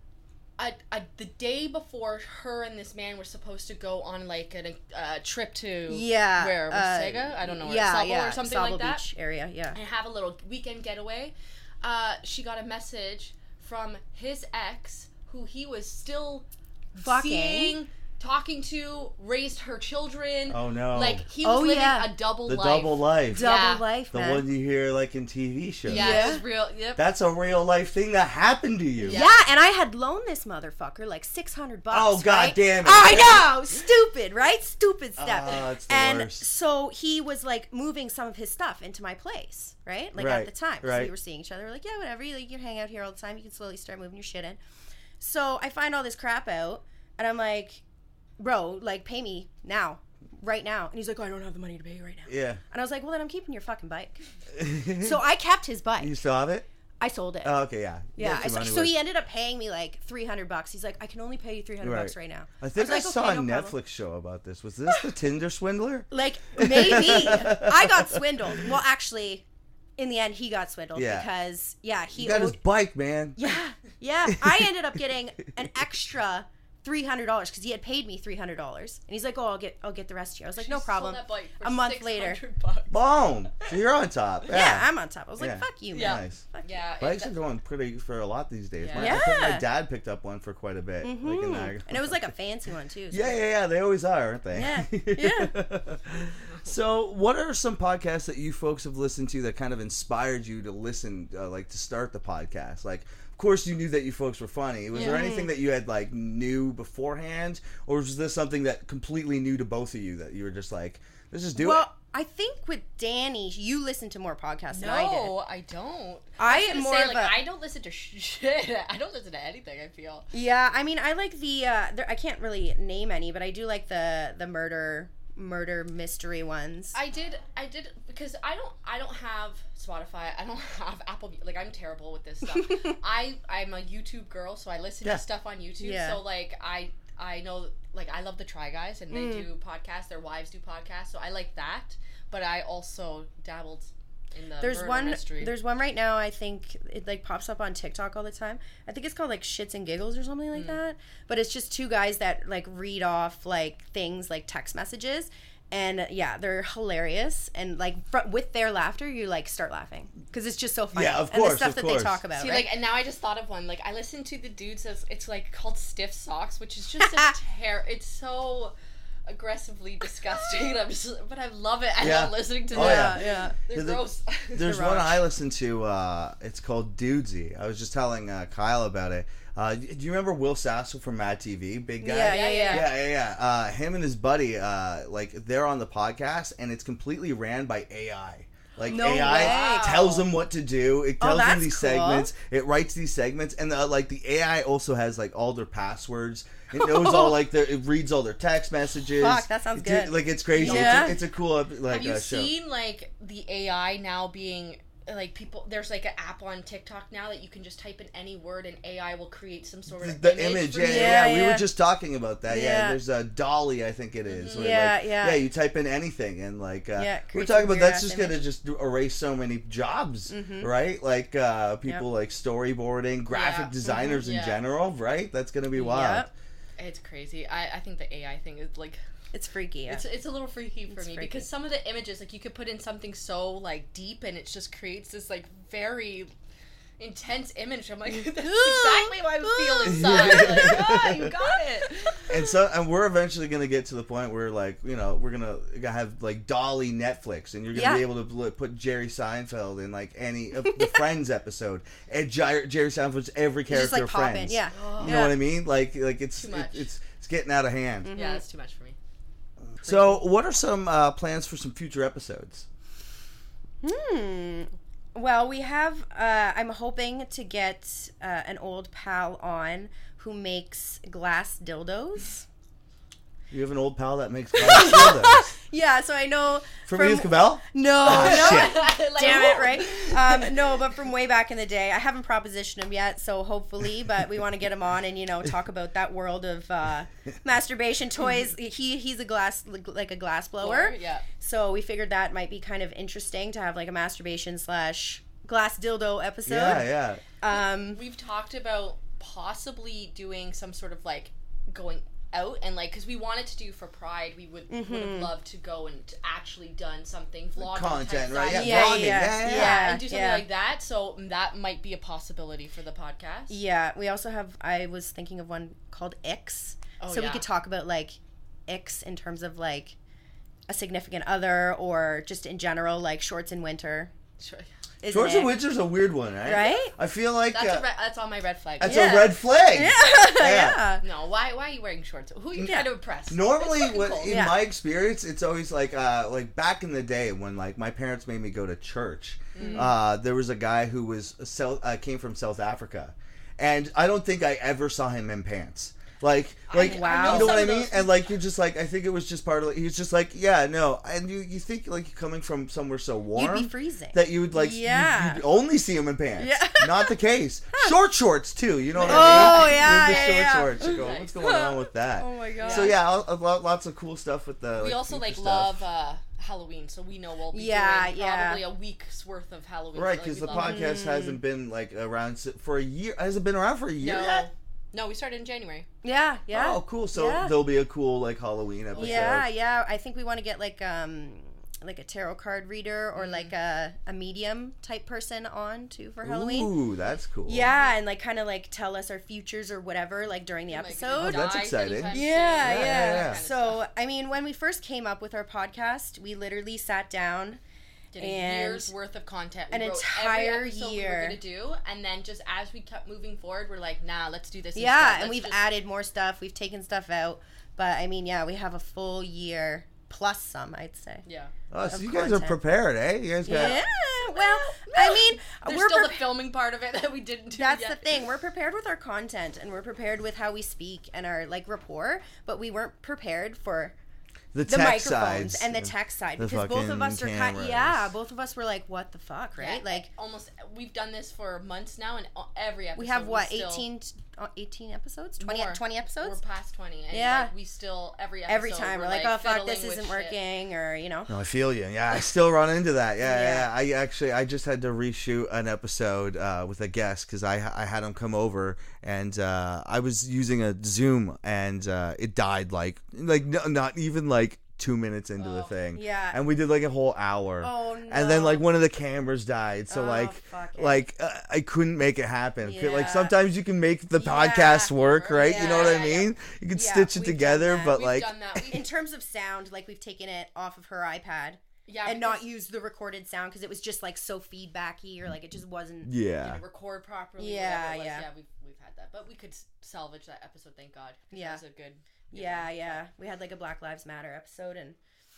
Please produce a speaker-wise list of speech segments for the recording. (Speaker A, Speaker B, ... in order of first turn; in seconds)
Speaker A: 0.6-9.0, 9.7-23.9, 25.9-27.0, 29.0-29.4, 80.5-83.0, 85.9-87.3, 88.8-89.2, 104.9-105.3, 114.7-120.3, 126.9-145.5, 162.4-168.7, 169.2-174.8, 182.2-183.0, 188.9-190.2, 200.5-201.2, 201.9-211.3, 214.2-214.8, 223.3-224.6, 226.8-229.0, 229.9-236.3, 237.0-242.2, 254.7-255.3, 256.4-256.9, 258.1-259.0, 278.0-280.8, 290.6-291.3, 297.4-313.6, 317.0-317.4, 324.4-324.7, 327.5-329.3, 331.0-334.5, 339.5-339.9, 346.7-348.2, 358.9-361.7, 362.6-363.0, 364.8-371.0, 374.0-375.9, 378.9-379.4, 383.1-383.5, 390.7-393.8, 398.1-405.6, 411.2-411.5, 414.3-418.1, 429.6-433.9, 435.4-440.4, 455.4-455.7, 464.8-466.3, 467.5-468.9, 471.9-472.4, 476.4-483.0
Speaker B: 5.9-9.8, 17.0-17.8, 21.4-22.1, 23.3-24.4, 25.9-26.4, 29.1-44.6, 45.2-47.8, 48.4-54.2, 55.0-56.2, 57.0-57.5, 58.1-63.8, 66.1-69.4, 70.0-72.6, 73.4-82.4, 84.5-86.8, 88.9-89.6, 91.0-93.4, 94.5-95.5, 104.9-105.5, 111.5-115.3, 116.4-117.4, 120.3-127.0, 132.5-132.8, 135.8-136.2, 139.1-139.5, 144.6-162.7, 167.0-167.3, 172.7-173.6, 174.6-175.2, 182.0-182.9, 188.9-190.1, 191.2-192.3, 196.7-197.4, 199.1-201.2, 210.8-211.7, 212.5-213.0, 214.6-215.4, 217.0-218.4, 220.3-220.7, 223.9-224.2, 225.7-226.3, 229.3-230.0, 230.9-231.4, 238.4-241.1, 247.7-248.1, 250.6-251.0, 253.7-255.4, 258.0-258.4, 259.8-260.2, 263.8-272.4, 274.6-298.0, 304.7-305.3, 308.5-310.5, 313.5-319.9, 320.7-324.1, 325.0-325.6, 326.4-326.9, 328.8-331.0, 332.6-332.9, 334.2-334.6, 339.6-339.9, 346.8-347.9, 353.3-355.4, 356.4-357.2, 359.0-363.0, 367.5-368.6, 370.5-371.4, 376.0-377.6, 379.0-386.7, 387.4-397.6, 398.1-398.9, 399.7-401.4, 404.7-411.2, 411.8-412.6, 413.4-416.2, 417.6-423.9, 424.6-430.1, 432.9-436.4, 437.1-437.5, 438.5-441.3, 443.2-443.7, 455.9-456.4, 457.6-458.6, 459.9-461.0, 462.6-463.4, 464.1-467.9, 468.7-476.1, 477.4-478.2, 481.3-481.6, 482.3-485.0
Speaker C: 20.5-21.2, 22.5-23.4, 24.1-26.4, 27.0-29.2, 31.9-33.5, 35.2-36.5, 40.2-41.1, 52.3-52.6, 54.5-55.2, 56.0-56.6, 57.4-59.0, 61.8-68.5, 70.9-71.3, 72.1-73.4, 74.3-74.6, 82.9-84.9, 85.4-86.4, 87.0-92.2, 93.1-111.9, 160.9-162.2, 172.0-202.5, 209.9-226.3, 239.9-241.3, 242.3-258.1, 259.8-262.6, 273.5-275.5, 276.9-278.8, 296.4-297.2, 307.6-309.9, 325.1-327.9, 328.8-330.9, 333.3-365.8, 369.9-374.5, 376.5-379.5, 386.2-387.7, 391.2-393.4, 411.7-413.8, 424.5-428.1, 441.3-468.6, 476.1-476.6